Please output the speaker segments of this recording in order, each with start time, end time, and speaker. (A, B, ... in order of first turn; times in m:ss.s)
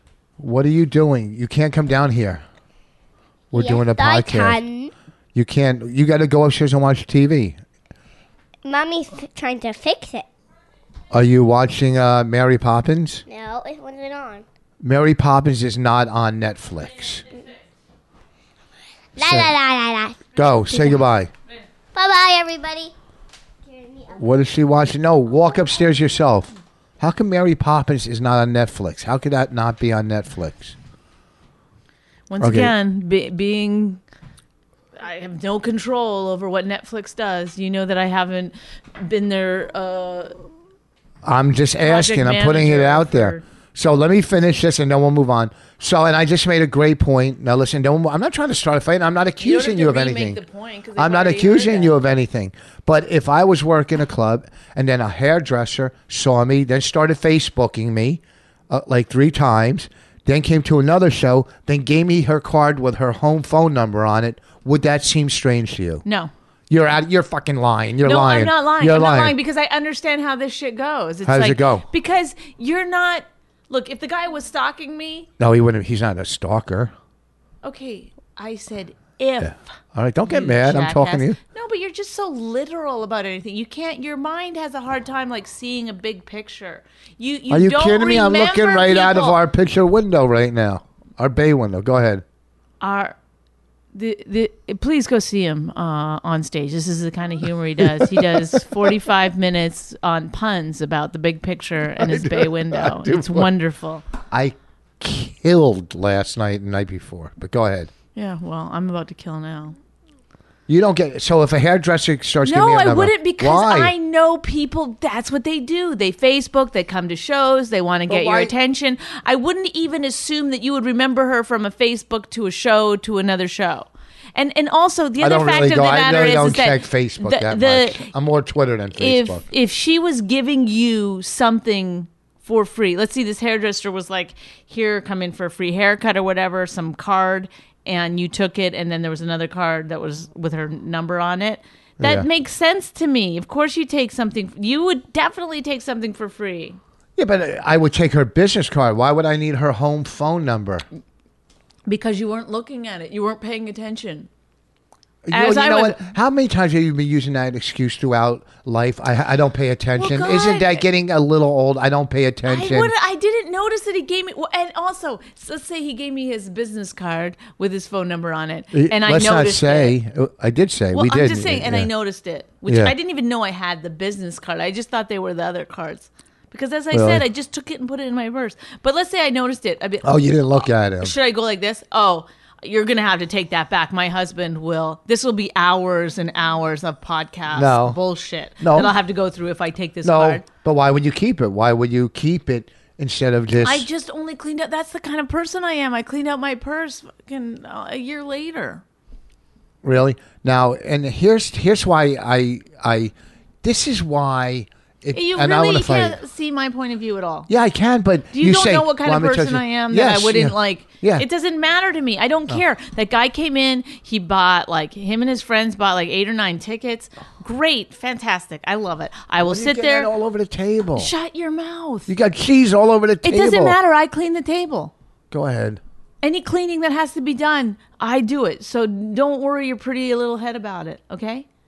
0:00.4-0:02.4 A
0:03.5-0:04.6 A
0:03.5-0:04.9 B
0:05.3-0:07.6 A
0:08.6-0:10.2 B
0:11.1-0:13.2 A
0:13.3-0:14.4 B
0:14.8-0:17.2 A
0:19.2-0:21.0 B
0:19.2-0:19.5 A
0:20.4-0:21.3 A
0:21.9-0:22.9 B
0:23.6-0:24.2 B
0:24.2-0:30.8 A
0:32.3-0:34.0 C
0:32.4-0:32.7 A
0:35.0-0:40.3 C
0:41.2-0:50.4 A
0:41.8-0:43.4 C
0:49.4-0:51.9 C
0:51.0-1:06.0 A
1:06.0-1:06.3 C
1:06.7-1:09.4 A
1:08.0-1:15.3 C
1:11.2-1:11.8 A
1:15.4-1:16.9 A
1:17.6-1:19.6 C
1:19.4-1:21.4 A
1:20.2-1:29.4 C
1:27.5-1:32.2 A
1:32.8-1:33.2 C
1:33.9-1:44.0 C
1:37.8-1:38.9 A
1:42.0-1:43.5 A
1:44.3-1:47.9 A
1:48.1-1:49.8 C
1:50.7-1:53.9 A
1:52.4-2:08.1 C
1:58.1-1:58.5 A
2:05.2-2:09.5 A
2:09.0-2:26.8 C
2:22.0-2:22.2 A
2:27.2-2:30.8 A
2:31.9-2:34.3 C
2:35.2-2:42.9 A
2:35.3-2:36.0 C
2:40.0-2:40.8 C
2:42.4-2:49.9 C
2:48.7-2:51.9 A
2:50.9-3:10.4 C
2:52.6-2:52.9 A
2:56.9-2:57.2 A
3:00.0-3:01.1 A
3:07.5-3:08.0 A
3:08.6-3:08.9 A
3:10.0-3:13.9 A
3:13.6-3:18.8 C
3:19.8-3:26.2 A
3:25.1-3:27.5 C
3:27.5-3:31.2 A
3:28.3-3:40.1 C
3:39.4-3:41.1 A
3:41.0-3:42.1 C
3:42.1-3:43.8 A
3:43.2-3:44.9 C
3:45.3-3:45.8 A
3:46.2-3:51.4 C